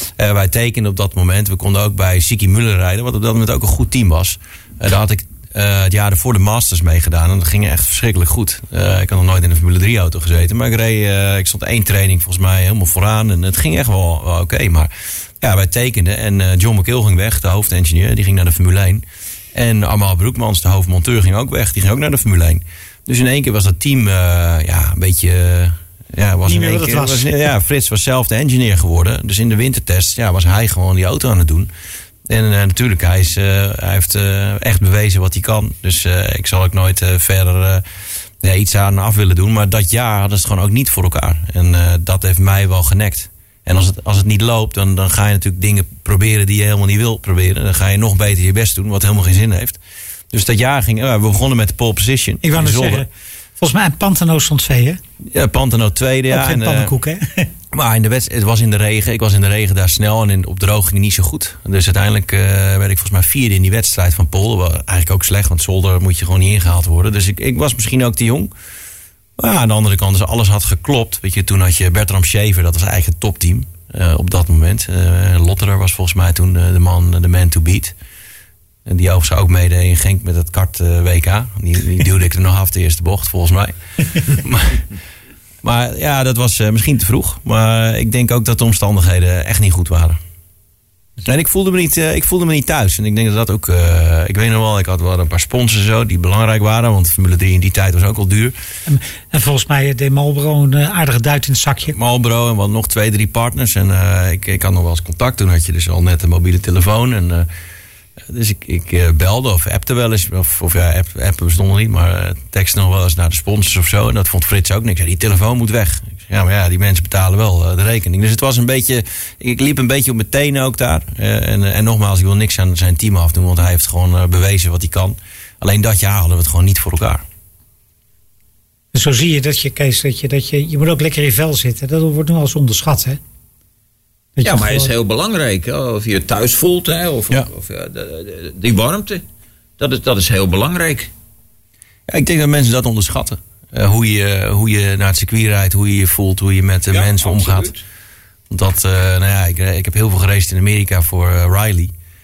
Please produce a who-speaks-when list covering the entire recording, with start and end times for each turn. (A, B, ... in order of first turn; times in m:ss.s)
0:00.2-0:31.7 A
0:26.4-0:27.3 B
0:32.3-0:37.8 A
0:38.4-0:49.8 A
0:50.3-0:53.0 A
0:52.4-0:53.1 B
0:53.6-0:55.0 B
0:55.3-0:56.9 A
0:56.3-0:57.5 B
0:57.7-1:08.5 A
1:09.4-1:17.9 A
1:18.8-1:24.8 A
1:25.6-1:30.2 A
1:31.2-1:38.5 A
1:38.8-1:41.9 B
1:41.9-1:47.5 A
1:48.3-2:07.2 A
2:08.9-2:13.2 B
2:14.4-2:14.9 B
2:14.4-2:19.2 C
2:19.8-2:21.1 C
2:22.1-2:27.7 A
2:26.9-2:27.8 C
2:28.5-2:31.9 A